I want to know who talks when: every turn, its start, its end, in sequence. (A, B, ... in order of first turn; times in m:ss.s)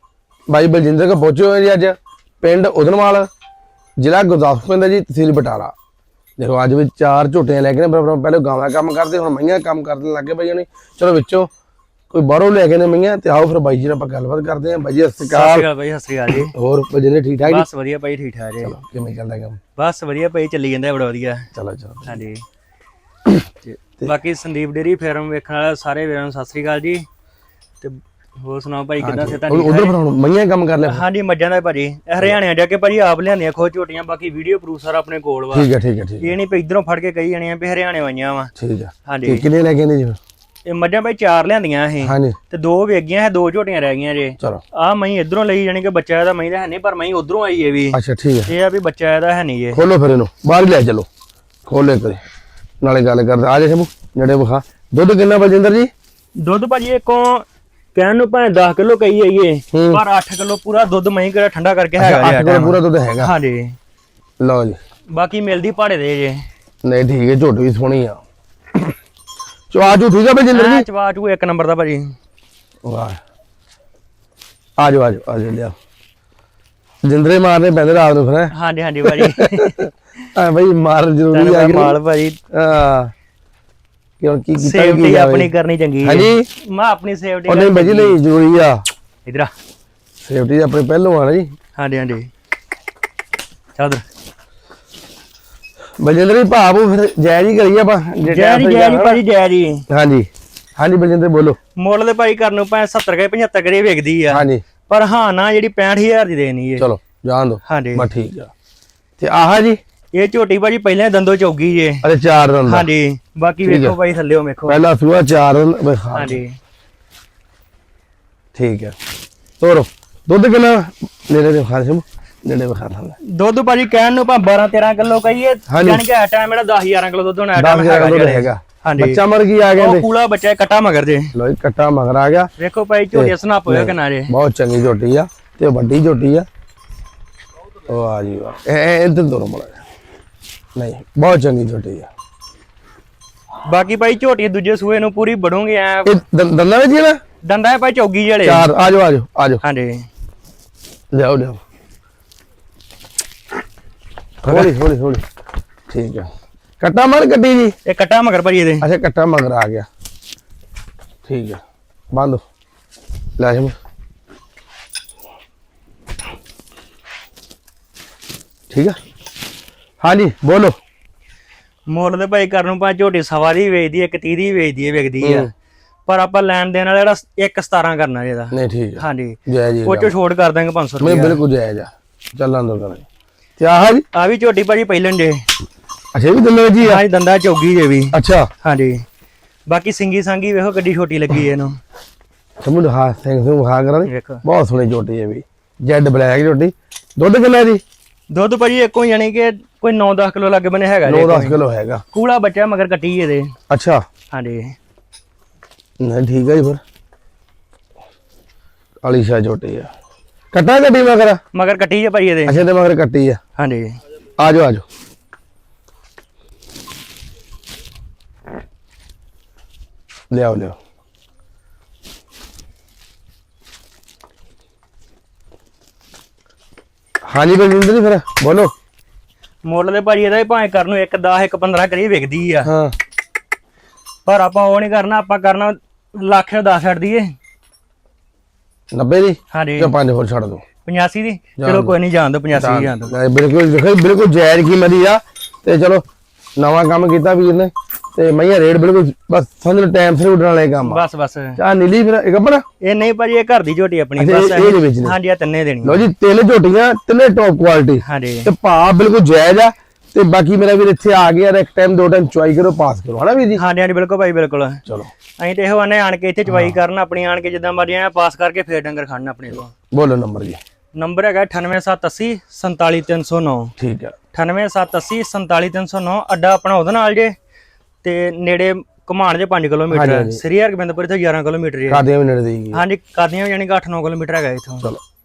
0:00.5-0:03.3 A
0:04.0-0:05.7 A
0:06.4-0:11.5 A
0:12.1-0:15.7 A
0:15.2-0:16.5 B
0:16.3-0:17.6 A
0:17.4-0:18.7 B
0:18.6-0:19.6 A
0:19.8-0:21.5 B
0:21.5-0:22.2 A
0:22.0-0:22.4 B
0:23.6-0:27.0 B
0:27.8-0:30.0 B
0:29.0-0:31.0 A
0:30.8-0:35.7 B
0:35.5-0:36.3 A
0:36.2-0:38.5 B
0:38.6-0:40.2 A
0:39.0-0:39.4 B
0:40.6-0:49.8 B
0:42.0-0:42.4 A
0:47.9-0:48.5 A
0:49.7-0:51.1 A
0:51.6-0:52.2 A
0:52.8-0:55.9 A
0:56.4-1:03.8 B
0:59.7-1:00.0 A
1:02.0-1:03.3 A
1:04.4-1:04.8 A
1:05.1-1:06.4 B
1:06.8-1:08.2 A
1:09.7-1:10.8 A
1:10.5-1:12.1 B
1:12.8-1:13.2 A
1:14.8-1:15.7 A
1:17.0-1:18.5 A
1:18.5-1:19.9 B
1:19.0-1:22.0 A
1:21.3-1:22.4 B
1:22.5-1:23.1 A
1:24.2-1:25.5 A
1:24.6-1:28.2 B
1:26.0-1:26.5 A
1:27.5-1:28.8 A
1:29.2-1:29.5 B
1:30.2-1:31.5 A
1:31.8-1:32.3 B
1:33.8-1:34.0 B
1:36.0-1:39.2 A
1:38.2-1:39.8 B
1:39.9-1:41.6 A
1:41.8-1:46.9 B
1:44.3-1:44.6 A
1:46.8-1:48.5 A
1:47.6-1:48.1 B
1:49.2-1:49.8 A
1:50.1-1:52.0 B
1:52.0-1:52.9 A
1:52.6-1:54.8 B
1:53.6-1:54.0 A
1:54.6-1:56.4 A
1:56.1-1:56.6 B
1:58.5-1:59.0 A
1:59.6-2:03.2 A
2:03.2-2:09.2 B
2:05.7-2:06.0 A
2:07.5-2:10.0 A
2:09.7-2:11.3 B
2:11.3-2:12.5 A
2:12.6-2:14.3 B
2:13.1-2:16.5 A
2:17.9-2:19.8 A
2:20.8-2:22.1 A
2:23.6-2:26.2 B
2:26.0-2:27.2 A
2:27.4-2:28.7 B
2:28.4-2:29.6 A
2:29.6-2:30.0 B
2:31.1-2:31.6 A
2:34.4-2:35.2 A
2:34.4-2:34.7 B
2:35.9-2:36.3 A
2:36.8-2:37.8 A
2:37.8-2:38.8 B
2:38.8-2:39.9 A
2:41.2-2:41.6 A
2:42.1-2:42.4 A
2:43.4-2:43.8 A
2:48.7-2:49.0 A
2:50.0-2:50.8 A
2:51.9-2:55.5 B
2:55.2-2:55.5 A
2:56.1-3:01.4 B
2:58.5-3:00.1 A
3:01.0-3:03.0 A
3:03.6-3:04.0 A
3:04.1-3:05.4 B
3:06.1-3:07.0 A
3:06.8-3:09.0 B
3:08.1-3:08.5 A
3:09.7-3:11.8 B
3:12.6-3:17.8 A
3:14.0-3:14.4 B
3:18.3-3:21.6 B
3:21.0-3:22.0 A
3:22.1-3:23.5 B
3:23.7-3:24.0 A
3:24.3-3:24.8 B
3:26.0-3:26.8 A
3:29.0-3:29.9 A
3:30.5-3:31.4 A
3:31.5-3:32.6 B
3:32.4-3:33.4 A
3:33.6-3:34.0 B
3:34.4-3:34.8 A
3:40.3-3:40.8 A
3:47.2-3:48.7 A
3:49.6-3:52.7 B
3:52.6-3:52.9 A
3:54.2-3:57.3 B
3:58.9-4:00.6 A
3:59.5-4:00.0 B
4:00.8-4:03.1 B
4:01.6-4:01.9 A
4:02.5-4:06.0 A
4:06.6-4:11.0 A
4:10.8-4:11.6 B
4:11.6-4:12.6 A
4:12.8-4:16.1 B
4:14.2-4:15.1 A
4:15.8-4:23.6 A
4:18.0-4:18.5 B
4:23.5-4:24.8 B
4:24.8-4:25.1 A
4:25.4-4:29.7 B
4:26.5-4:26.8 A
4:29.9-4:30.6 A
4:30.9-4:33.7 B
4:33.8-4:34.1 A
4:34.3-4:37.3 B
4:38.0-4:42.0 B
4:39.9-4:40.4 A
4:41.9-4:42.8 A
4:42.7-4:44.8 B